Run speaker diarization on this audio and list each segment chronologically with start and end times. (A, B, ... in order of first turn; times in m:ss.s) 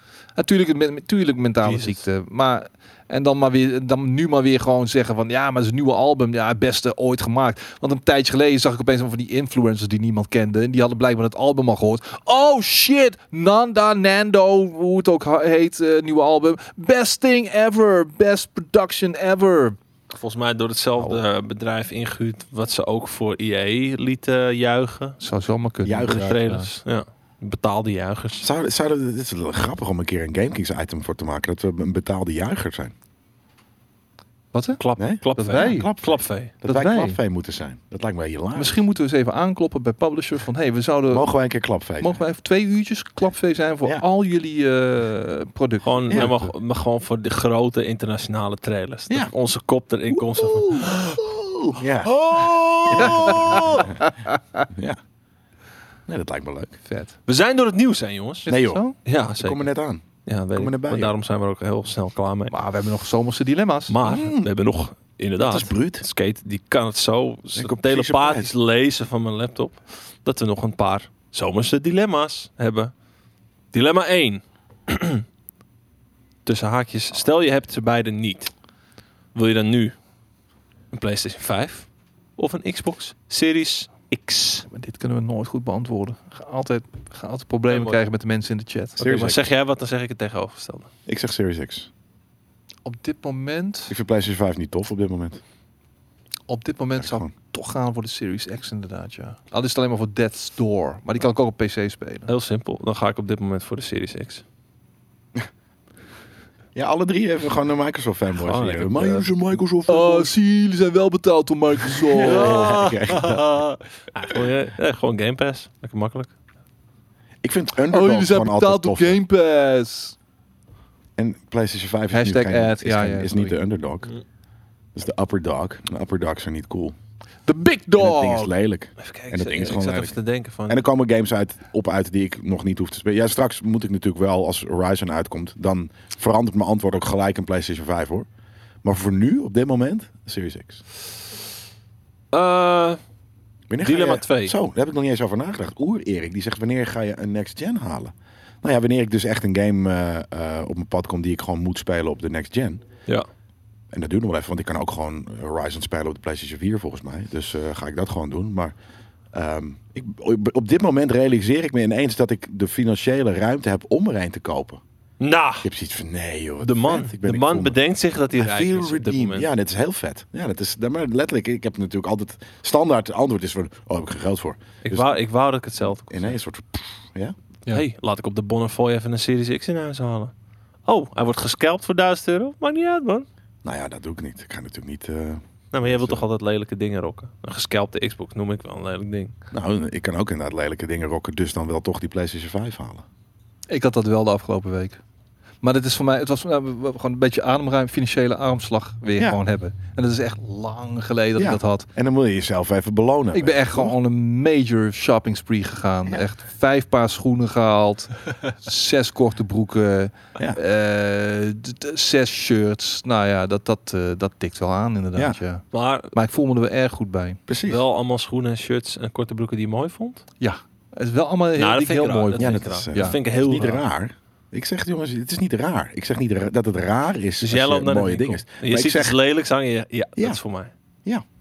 0:00.4-0:19.8 A
0:01.6-0:02.0 B
0:20.1-0:25.2 B
0:25.2-0:26.7 A
0:25.8-0:26.4 C
0:26.0-0:28.5 B
0:28.4-0:32.9 C
0:34.5-0:34.8 A
0:34.8-0:36.5 B
0:35.0-0:38.8 C
0:35.4-0:35.9 A
0:36.6-0:37.2 A
0:38.6-0:41.3 A
0:41.1-0:42.2 C
0:42.0-0:46.5 A
0:45.8-0:51.2 B
0:50.2-0:54.1 C
0:52.0-0:54.0 B
0:53.0-0:54.0 A
0:54.7-0:55.0 C
0:56.1-0:56.8 C
0:56.9-0:57.2 A
0:57.3-0:58.5 B
0:58.5-0:59.0 A
0:58.5-0:58.8 C
0:59.0-0:59.7 B
0:59.4-1:01.1 C
1:00.2-1:02.6 B
1:02.5-1:04.0 A
1:03.9-1:12.9 B
1:04.0-1:04.5 C
1:05.4-1:06.0 C
1:07.6-1:08.5 C
1:13.7-1:15.2 B
1:16.4-1:18.5 B
1:19.3-1:20.0 B
1:20.9-1:24.7 B
1:24.7-1:29.0 A
1:27.7-1:28.0 B
1:29.0-1:29.5 C
1:29.0-1:30.9 B
1:31.1-1:31.9 C
1:32.8-1:33.9 A
1:33.9-1:35.4 C
1:36.5-1:42.3 A
1:37.0-1:37.3 C
1:42.3-1:44.4 B
1:46.8-1:50.3 C
1:48.4-1:49.3 B
1:49.9-1:52.8 A
1:52.0-1:53.5 C
1:52.2-1:56.3 B
1:57.4-1:59.2 C
1:57.9-2:00.2 A
2:01.2-2:04.1 C
2:02.1-2:03.6 A
2:05.0-2:07.0 C
2:07.5-2:08.5 A
2:08.0-2:10.2 C
2:09.0-2:10.8 B
2:10.7-2:18.3 C
2:18.8-2:20.8 C
2:22.3-2:23.0 B
2:23.7-2:32.8 C
2:23.8-2:24.6 B
2:33.9-2:38.7 C
2:39.3-2:44.8 C
2:45.2-2:45.7 B
2:45.6-2:47.8 C
2:46.6-2:49.5 B
2:48.4-2:55.1 C
2:54.8-2:56.4 B
2:56.1-2:57.4 C
2:57.7-3:00.3 B
3:00.9-3:03.3 B
3:03.6-3:06.2 C
3:05.7-3:09.4 B
3:09.5-3:13.0 C
3:13.7-3:15.0 A
3:15.6-3:21.9 A
3:21.4-3:23.9 C
3:23.3-3:37.4 A
3:35.7-3:36.1 B
3:37.5-3:37.8 C
3:37.7-3:40.2 B
3:40.4-3:43.2 A
3:41.6-3:43.8 B
3:42.4-3:49.2 C
3:47.4-3:50.7 B